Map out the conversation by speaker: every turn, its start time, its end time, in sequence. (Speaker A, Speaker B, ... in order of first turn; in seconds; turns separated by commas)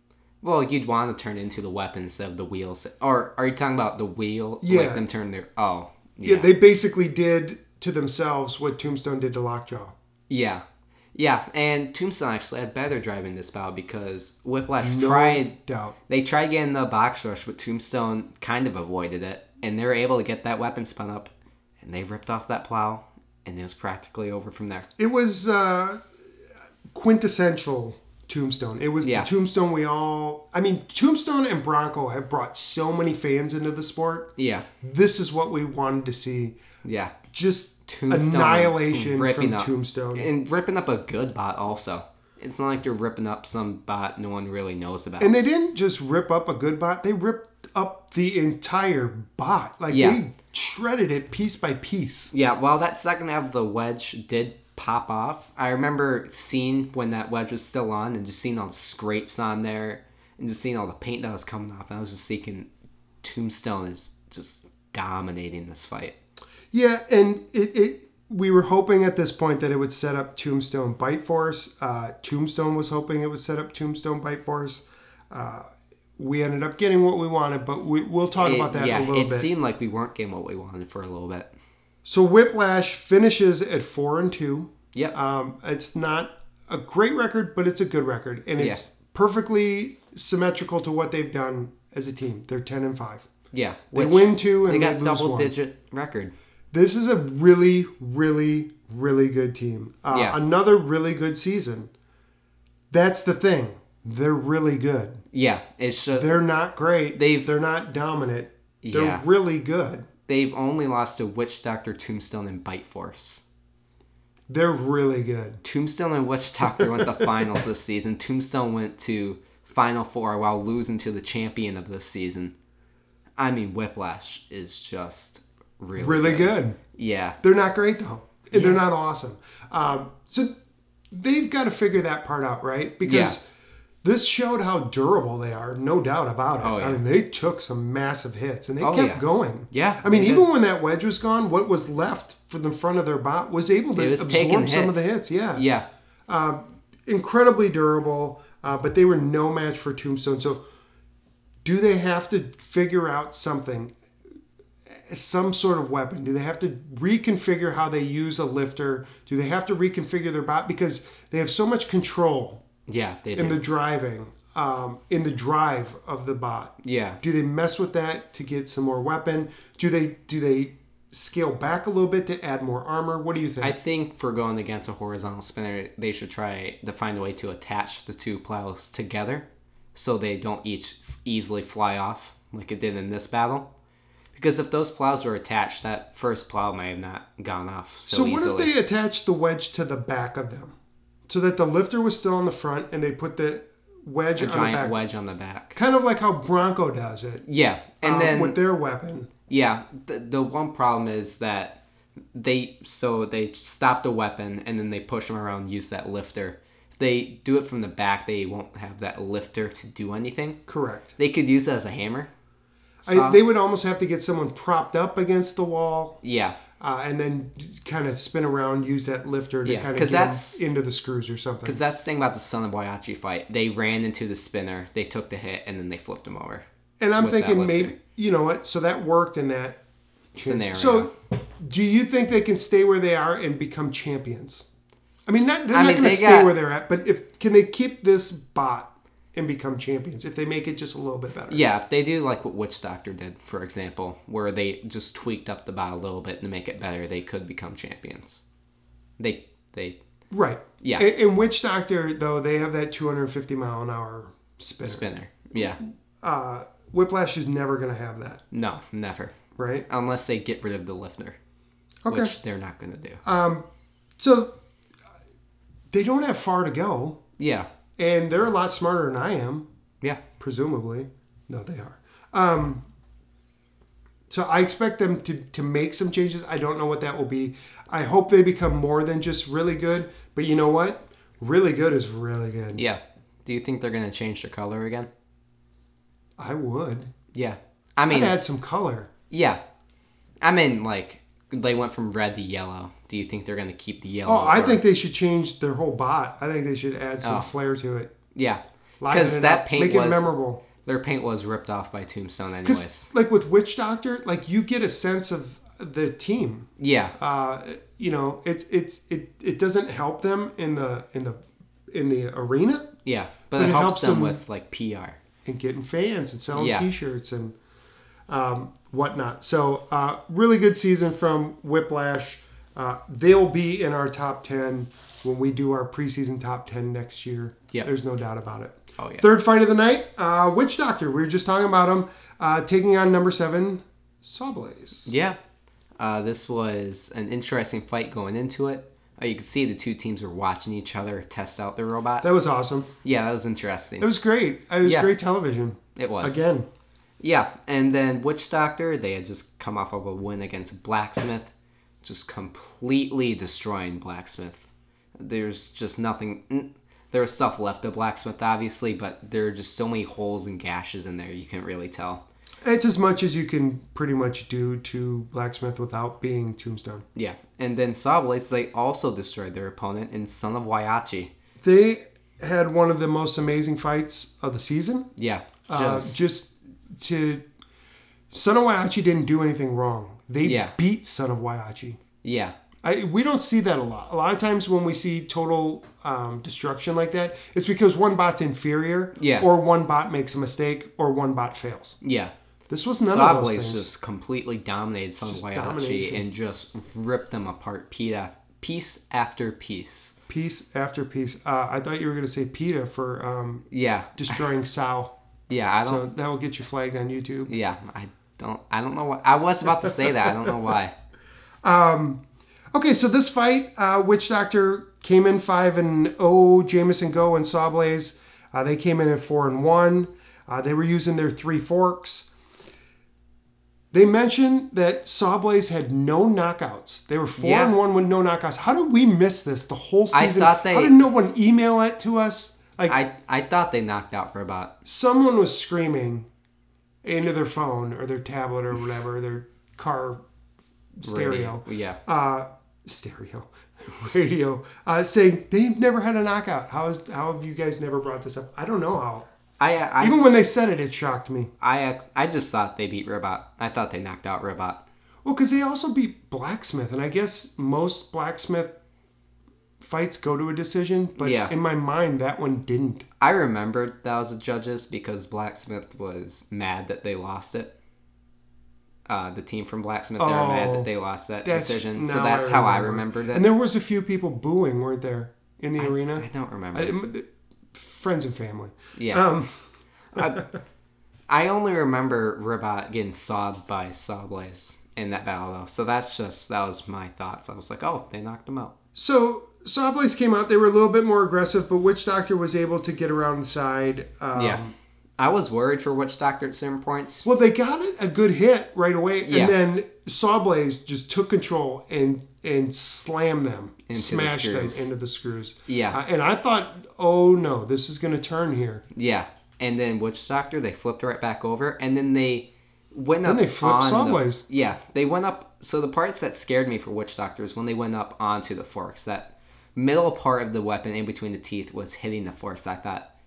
Speaker A: 0.4-6.5, Speaker B: 4.6-5.0, Speaker B: 6.2-9.9, Speaker A: 10.3-10.6, Speaker A: 11.1-15.5, Speaker B: 14.8-15.9, Speaker A: 16.1-21.3, Speaker A: 21.8-24.9, Speaker B: 25.0-26.0, Speaker B: 26.9-36.6, Speaker A: 29.0-29.3, Speaker A: 34.4-34.7, Speaker A: 36.8-37.1, Speaker B: 37.3-40.3, Speaker A: 37.9-45.3, Speaker B: 45.2-52.3, Speaker A: 49.9-50.2, Speaker A: 52.3-62.7, Speaker A: 63.2-66.2, Speaker B: 66.7-75.7, Speaker B: 76.2-79.5, Speaker A: 78.4-81.5, Speaker B: 82.0-93.3, Speaker A: 93.5-96.3, Speaker B: 93.9-95.5, Speaker B: 96.7-101.9, Speaker A: 100.1-100.4, Speaker B: 102.9-105.2, Speaker A: 105.3-106.3, Speaker B: 106.1-110.1, Speaker A: 107.2-107.5, Speaker A: 108.8-109.2, Speaker A: 110.3-113.4, Speaker B: 114.5-115.6, Speaker A: 115.6-122.5, Speaker B: 116.7-117.5, Speaker A: 123.4-127.4, Speaker B: 126.0-126.8, Speaker B: 127.4-130.5, Speaker A: 128.5-128.8, Speaker B: 131.1-133.4, Speaker A: 133.1-133.4, Speaker B: 134.0-145.6, Speaker A: 136.6-137.0, Speaker A: 138.8-140.5, Speaker A: 143.9-145.9, Speaker B: 146.3-150.6, Speaker B: 151.6-153.9, Speaker B: 154.9-162.6, Speaker A: 162.9-163.6, Speaker B: 163.4-173.7, Speaker A: 166.8-167.2, Speaker A: 173.6-183.7, Speaker A: 184.3-188.7, Speaker B: 188.1-190.8, Speaker B: 191.3-195.0, Speaker A: 194.4-195.8, Speaker B: 195.8-197.4, Speaker A: 197.4-198.6, Speaker B: 198.0-199.3, Speaker A: 199.5-201.8, Speaker A: 202.3-210.6, Speaker B: 210.7-211.1, Speaker A: 211.2-212.3, Speaker A: 213.0-213.4, Speaker B: 213.1-216.2, Speaker A: 216.2-216.6, Speaker B: 216.8-221.8, Speaker A: 219.6-220.6, Speaker A: 221.6-226.6, Speaker B: 227.0-229.8, Speaker A: 227.2-227.9, Speaker B: 230.3-234.7, Speaker A: 230.4-231.1, Speaker B: 235.3-241.6, Speaker A: 235.7-236.6, Speaker A: 241.5-248.4, Speaker A: 249.2-250.0, Speaker B: 250.3-255.1, Speaker A: 250.8-251.1, Speaker A: 254.8-255.8, Speaker B: 256.2-258.4, Speaker A: 258.5-259.3, Speaker B: 259.6-259.9, Speaker A: 259.9-261.4, Speaker B: 262.1-262.3, Speaker A: 262.1-263.2, Speaker B: 263.2-263.6, Speaker B: 264.2-264.5, Speaker B: 265.9-267.2, Speaker A: 267.4-267.7, Speaker B: 268.0-269.6, Speaker B: 270.4-272.8, Speaker B: 274.3-282.8, Speaker A: 282.8-285.1, Speaker B: 286.4-287.1, Speaker A: 287.3-288.4, Speaker B: 288.1-289.1, Speaker A: 289.3-289.6, Speaker A: 290.4-294.8, Speaker B: 294.2-298.1, Speaker A: 298.4-303.1, Speaker B: 299.0-300.6, Speaker B: 302.6-312.9, Speaker A: 306.8-307.1, Speaker A: 313.1-315.2, Speaker B: 313.5-314.4, Speaker B: 315.4-317.6, Speaker A: 316.5-316.9, Speaker B: 318.3-335.1, Speaker A: 329.0-329.2, Speaker A: 335.1-335.4, Speaker A: 336.0-342.4, Speaker B: 342.2-342.9, Speaker A: 343.0-344.1, Speaker B: 344.0-346.7, Speaker A: 344.8-345.1, Speaker A: 345.9-346.4, Speaker A: 347.2-351.5, Speaker A: 352.0-362.2, Speaker B: 362.6-367.1, Speaker A: 367.1-371.3, Speaker B: 371.6-375.1, Speaker A: 375.2-376.2, Speaker B: 375.7-377.4, Speaker B: 378.3-382.0, Speaker A: 380.4-380.8, Speaker A: 382.2-382.5, Speaker B: 382.8-391.9, Speaker A: 389.2-389.5, Speaker A: 392.0-392.3, Speaker B: 392.7-393.9, Speaker A: 393.0-400.1, Speaker B: 395.2-396.2, Speaker B: 400.3-403.6, Speaker A: 403.7-404.4, Speaker B: 404.1-405.1, Speaker A: 405.5-406.1, Speaker B: 405.8-407.5, Speaker A: 407.5-410.9, Speaker B: 410.1-410.5, Speaker B: 411.6-412.2, Speaker B: 412.7-422.3, Speaker B: 423.9-433.0, Speaker A: 427.4-427.7, Speaker A: 430.1-430.9, Speaker A: 432.9-434.7, Speaker B: 434.9-436.3, Speaker B: 437.0-440.2, Speaker B: 441.0-449.3, Speaker A: 441.0-442.0, Speaker A: 449.6-450.2, Speaker B: 450.0-451.5, Speaker A: 451.6-454.8, Speaker B: 455.2-458.7, Speaker B: 459.8-463.1, Speaker A: 461.2-461.5, Speaker A: 463.2-467.7, Speaker A: 469.1-473.4, Speaker B: 470.2-470.9, Speaker B: 471.4-479.5, Speaker A: 475.8-476.9, Speaker A: 478.9-479.3, Speaker A: 480.1-480.4, Speaker B: 480.1-480.4, Speaker A: 481.3-488.7, Speaker B: 488.9-494.7, Speaker A: 494.4-494.6, Speaker A: 495.2-497.2, Speaker B: 497.2-508.8, Speaker A: 499.2-499.6, Speaker A: 503.9-504.9, Speaker A: 505.7-506.0, Speaker A: 508.9-523.1, Speaker B: 513.2-514.4